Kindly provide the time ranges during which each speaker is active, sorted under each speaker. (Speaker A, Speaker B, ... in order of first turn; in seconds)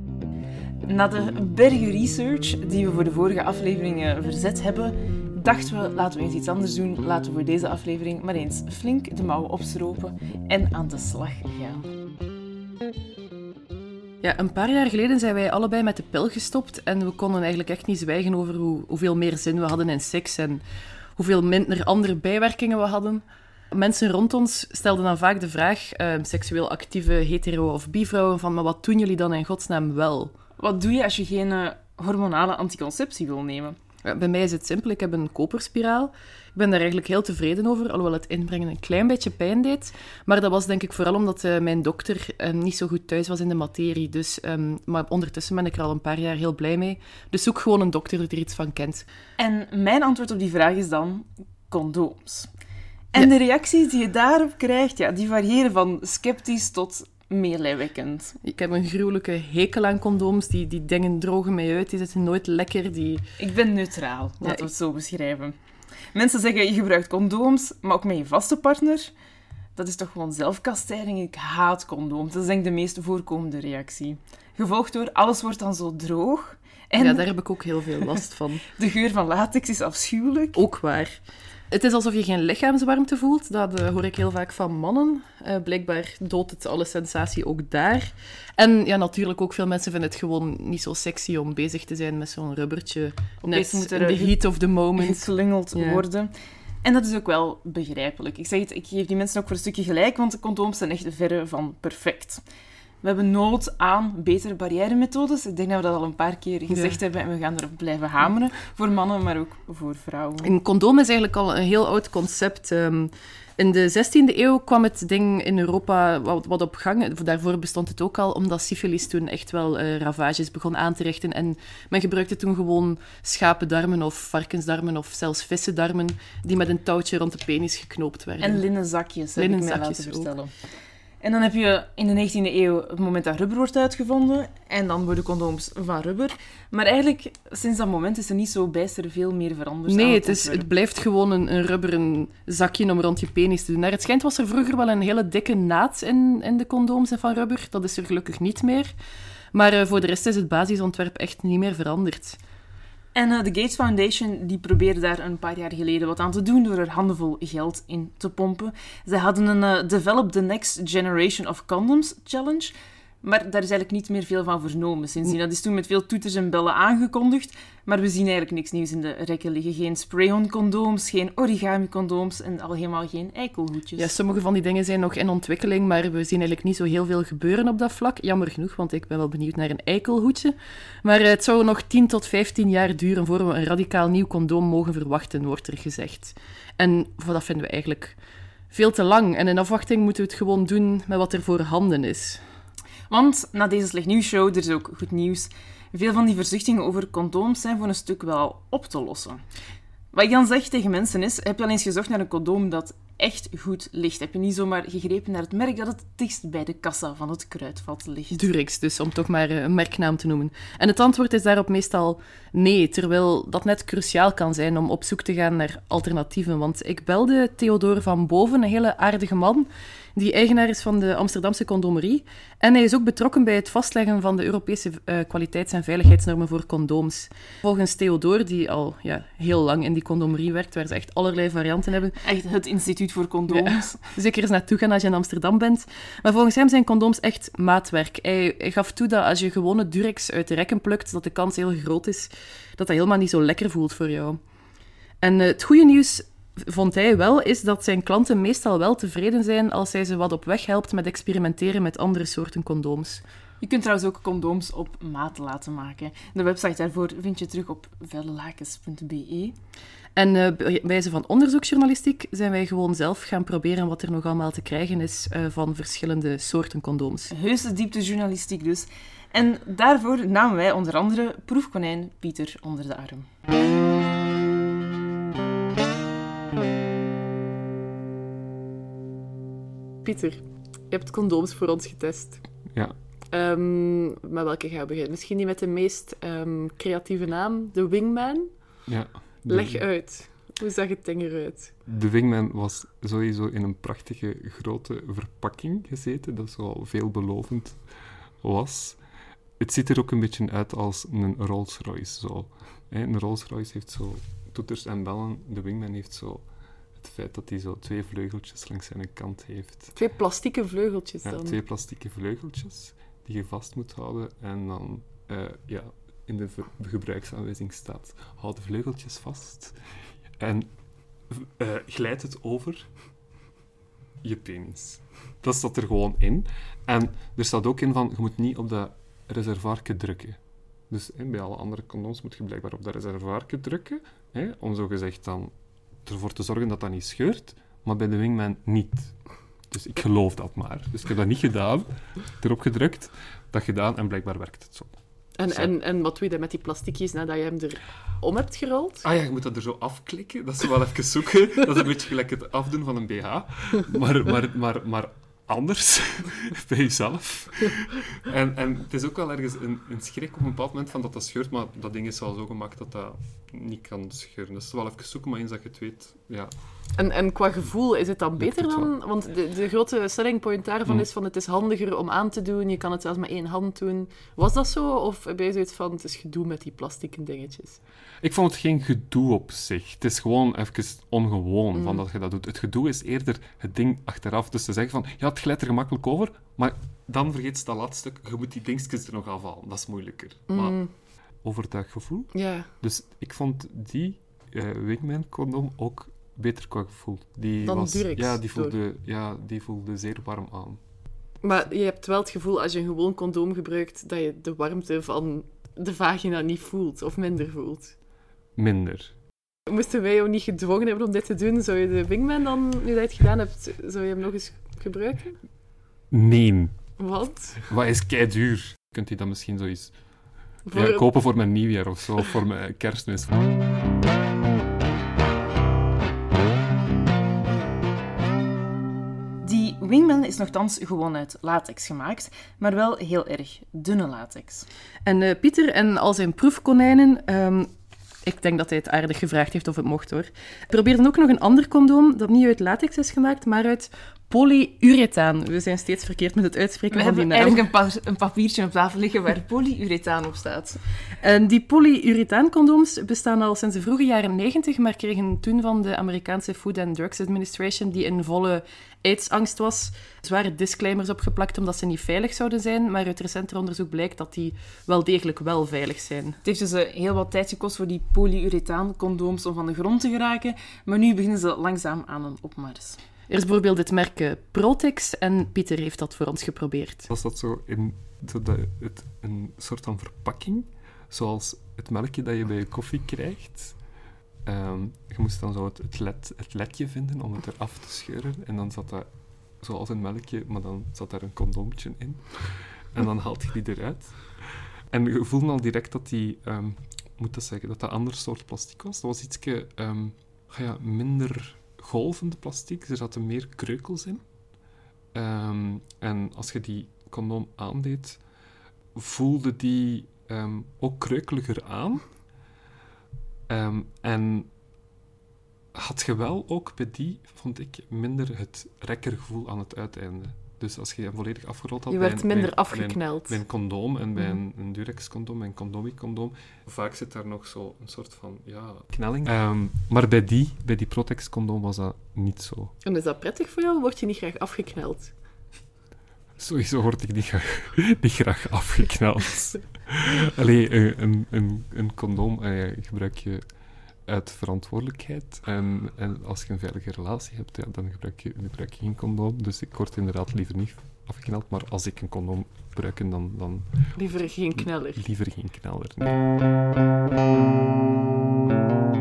Speaker A: 0.8-11.8, 30.6-33.8, 49.4-52.5, 53.1-58.4, 63.4-65.5, 66.1-69.1, 69.8-77.3, 78.7-80.6, 93.4-94.4, 94.9-102.4, 103.0-110.5, 128.4-130.5, 131.2-140.7, 153.1-174.1, 193.1-199.4, 200.1-208.4, 232.2-234.0, 253.6-259.6, 267.3-273.2, 429.4-434.7, 446.9-450.8, 466.4-473.0
Speaker B: 14.2-20.6, 21.2-30.3, 34.0-49.0, 58.4-63.2, 77.0-78.6, 80.5-81.2, 81.7-96.0, 106.7-107.0, 110.4-128.6, 129.4-130.3, 139.9-148.9, 149.5-152.4, 173.9-188.2, 188.7-192.4, 208.3-232.2, 233.5-244.4, 245.2-253.2, 260.1-267.3, 280.0-282.4, 283.3-288.5, 289.5-291.7, 309.9-311.6, 345.4-349.0, 366.9-377.8, 381.8-382.0, 390.5-390.9, 392.3-392.7, 397.6-398.7, 401.4-407.9, 409.7-415.4, 417.0-417.7, 420.7-421.1, 435.0-437.7, 438.2-447.6, 451.2-466.4, 473.3-477.1, 521.9-523.4, 532.8-535.1, 554.0-555.0
Speaker C: 288.9-289.9, 291.9-297.8, 298.4-299.0, 299.6-309.9, 311.2-323.0, 324.2-345.8, 349.0-366.7, 368.4-368.9, 378.2-400.8, 408.6-409.1, 416.1-417.0, 417.7-423.3, 477.1-483.9, 484.4-504.3, 505.1-508.3, 508.9-512.2, 513.5-514.5, 515.7-532.7, 536.4-556.2